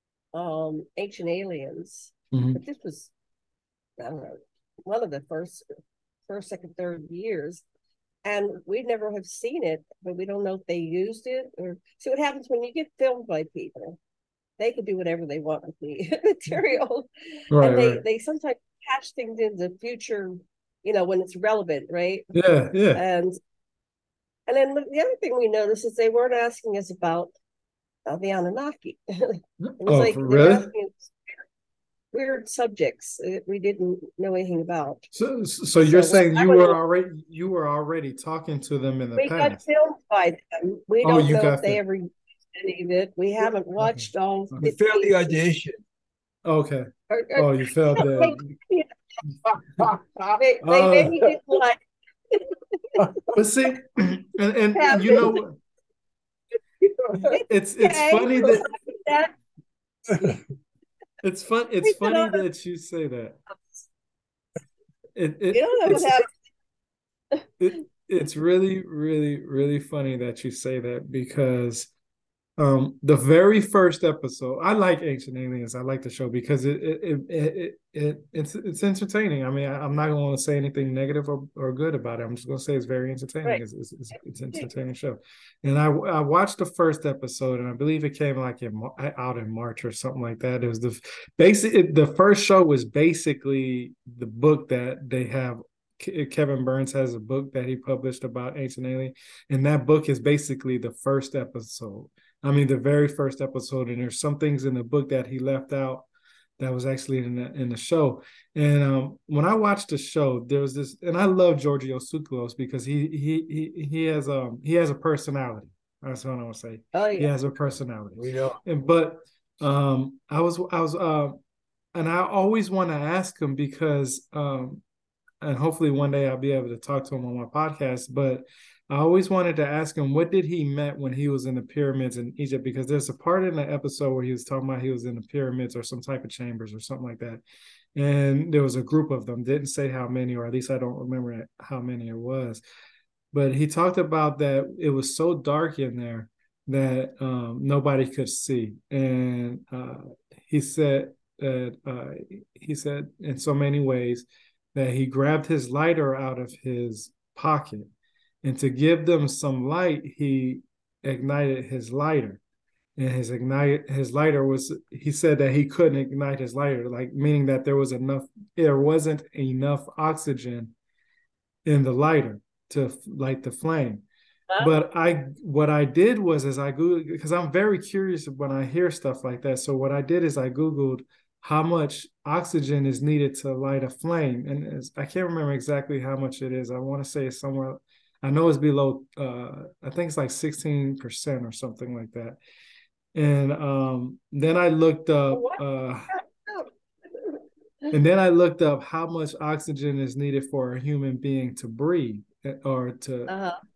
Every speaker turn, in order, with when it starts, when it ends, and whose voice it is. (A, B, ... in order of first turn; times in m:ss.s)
0:00.3-0:03.1 A
0:02.3-0:02.6 B
0:04.0-0:05.7 A
0:06.3-0:07.6 A
0:08.2-0:14.0 A
0:14.6-0:22.3 A
0:17.5-0:18.0 B
0:22.3-0:23.0 B
0:22.9-0:23.4 A
0:24.5-0:27.3 A
0:28.0-0:31.1 A
0:29.6-0:30.7 B
0:32.1-0:35.1 A
0:35.1-0:39.6 B
0:35.8-0:36.8 A
0:39.2-0:45.3 A
0:41.0-0:41.8 B
0:43.8-0:44.7 B
0:44.6-0:45.8 C
0:46.4-0:48.4 B
0:47.1-0:48.9 A
0:49.8-0:50.3 C
0:50.4-0:53.0 A
0:50.6-0:51.1 B
0:53.3-0:55.6 B
0:54.7-0:55.4 A
0:57.0-0:57.3 C
0:57.2-0:59.3 A
0:57.3-0:58.7 B
1:00.1-1:00.4 C
1:01.2-1:03.4 B
1:01.8-1:02.4 A
1:05.2-1:06.1 B
1:05.5-1:06.3 A
1:07.6-1:11.9 B
1:12.6-1:46.1 B
1:46.6-2:01.4 B
1:56.9-1:57.3 A
1:58.2-1:58.6 C
2:01.9-2:04.8 B
2:05.4-2:17.4 B
2:18.0-2:22.6 B
2:23.3-2:37.9 B
2:38.4-2:42.4 B
2:43.0-2:50.7 B
2:51.6-2:54.0 B
2:54.6-3:12.4 B
3:13.1-3:16.1 B
3:15.3-3:17.3 A
3:17.9-3:23.3 B
3:23.3-3:23.6 A